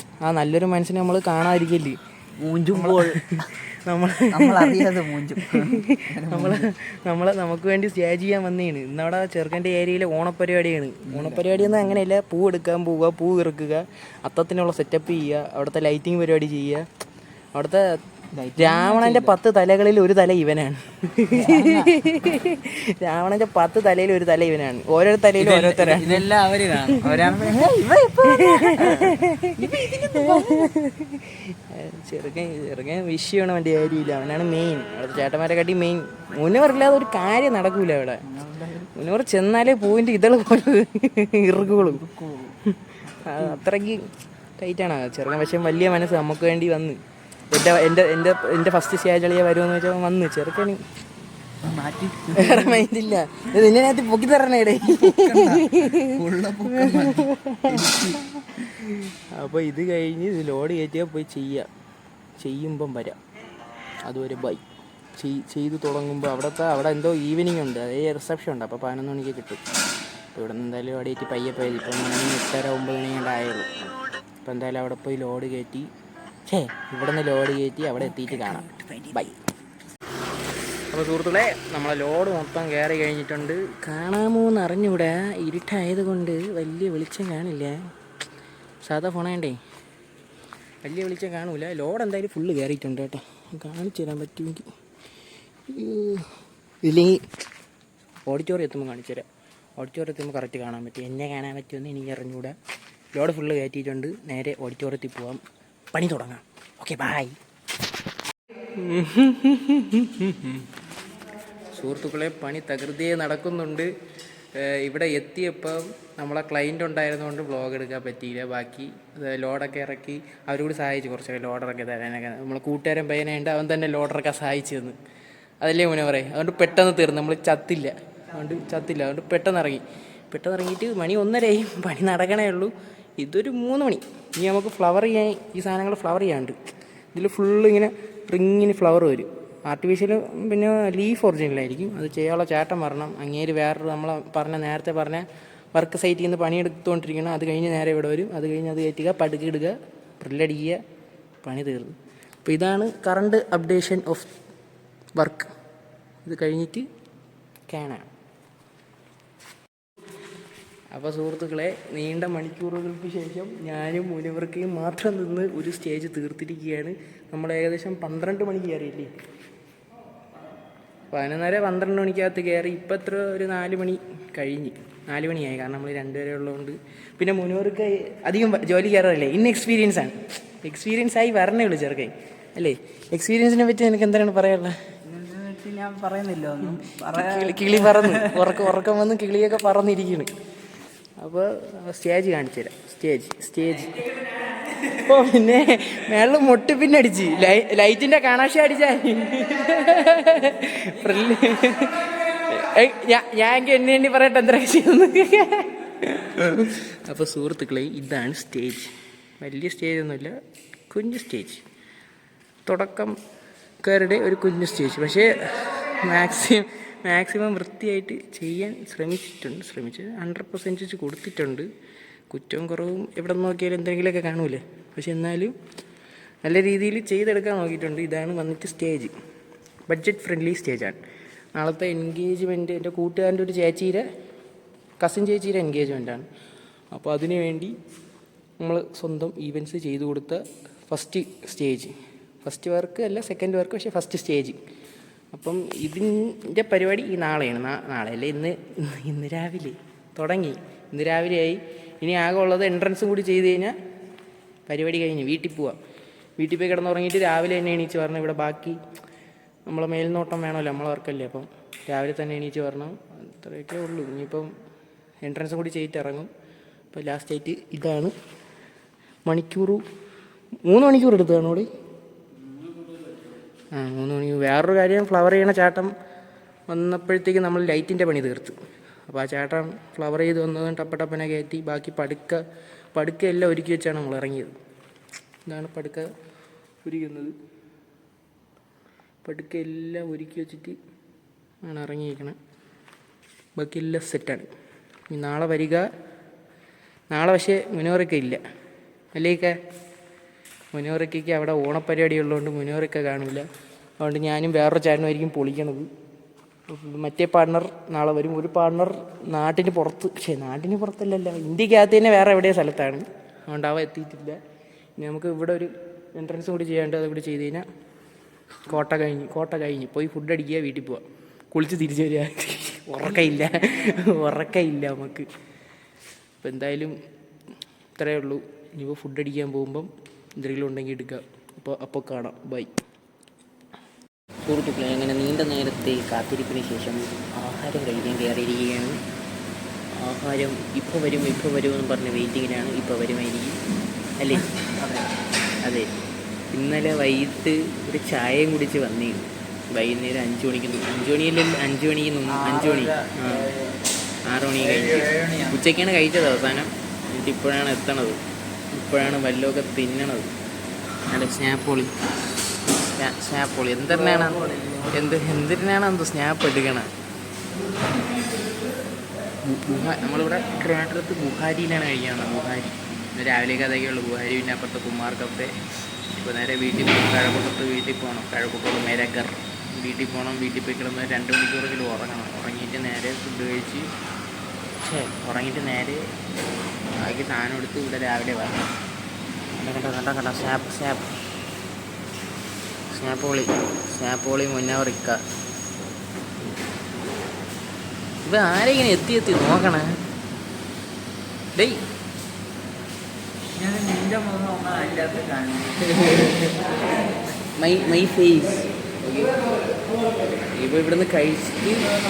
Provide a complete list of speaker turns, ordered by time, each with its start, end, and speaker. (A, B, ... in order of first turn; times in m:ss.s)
0:00.2-0:02.0 A
0:02.4-0:03.3 B
0:02.7-0:16.9 A
0:04.3-0:06.7 B
0:11.1-0:12.0 B
0:17.5-0:18.0 A
0:18.3-0:19.4 B
0:18.6-0:26.3 A
0:21.3-0:22.0 B
0:25.4-0:30.7 B
0:26.8-0:27.3 A
0:28.3-0:38.2 A
0:38.2-0:38.9 B
0:38.9-0:42.0 A
0:41.5-0:42.6 B
0:42.6-0:44.1 A
0:43.1-0:43.6 B
0:44.6-0:47.0 A
0:47.5-0:50.8 A
0:51.6-0:52.9 B
0:52.3-0:58.0 A
0:54.8-0:58.7 B
0:58.8-1:01.7 A
1:02.4-1:03.2 A
1:04.0-1:04.6 A
1:05.2-1:09.6 A
1:10.3-1:13.8 A
1:14.4-1:15.9 A
1:16.5-1:19.4 A
1:18.0-1:19.2 B
1:20.9-1:27.8 A
1:28.8-1:29.6 A
1:30.8-1:34.6 A
1:35.7-1:37.2 A
1:38.2-1:39.2 A
1:39.8-1:42.6 A
1:43.1-1:47.4 A
1:48.7-1:50.7 A
1:51.7-1:53.9 A
1:54.5-2:05.0 A
2:05.6-2:16.6 A
2:17.1-2:30.8 A
2:31.4-2:34.3 A
2:35.2-2:35.5 A
2:36.2-2:36.9 A
2:37.7-2:38.1 A
2:40.9-2:49.1 A
2:51.1-3:04.8 A
3:05.0-3:08.6 B
3:07.1-3:10.3 A
3:11.2-3:30.4 A
3:30.9-3:31.6 A
3:32.6-3:33.2 A
3:33.8-3:41.7 A
3:42.3-3:45.6 A
3:46.4-3:49.1 A
3:49.9-3:51.0 A
3:51.5-3:54.0 A
3:55.0-3:56.3 A
3:56.9-3:57.7 A
3:58.6-4:04.6 A
4:05.3-4:13.8 A
4:14.7-4:15.8 A
4:16.4-4:18.8 A
4:19.7-4:24.5 A
4:25.2-4:26.3 A
4:26.9-4:28.1 A
4:29.2-4:29.8 A
4:30.6-4:31.7 A
4:33.7-4:35.9 A
4:36.7-4:38.6 A
4:39.1-4:42.4 A
4:42.9-4:44.5 A
4:45.4-4:46.1 A
4:46.8-4:47.3 A
4:49.2-4:50.8 A
4:51.6-4:52.4 A
4:53.6-4:54.5 A
4:55.1-4:55.9 A
4:57.1-4:58.4 A
4:59.1-4:59.6 A
5:00.7-5:03.5 A
5:04.0-5:05.9 A
5:06.7-5:14.4 A
5:15.0-5:17.6 A
5:18.6-5:25.3 A
5:26.4-5:26.9 A
5:28.0-5:32.7 A
5:34.4-5:39.0 A
5:40.0-5:43.6 A
5:44.2-5:44.5 A
5:44.4-5:45.1 B
5:45.6-5:45.9 A
5:46.5-5:53.5 A
5:52.3-5:53.8 B
5:54.2-5:58.2 A
5:54.6-5:55.6 B
5:58.7-6:00.3 A
6:01.1-6:01.9 A
6:02.6-6:06.9 A
6:04.1-6:04.9 B
6:09.5-6:15.5 A
6:16.1-6:23.9 A
6:24.8-6:26.0 A
6:27.0-6:28.6 A
6:29.5-6:31.1 A
6:32.9-6:35.2 A
6:38.2-6:39.9 A
6:41.5-6:41.8 A
6:43.5-6:46.6 B
6:47.5-6:49.4 A
6:50.3-6:51.8 A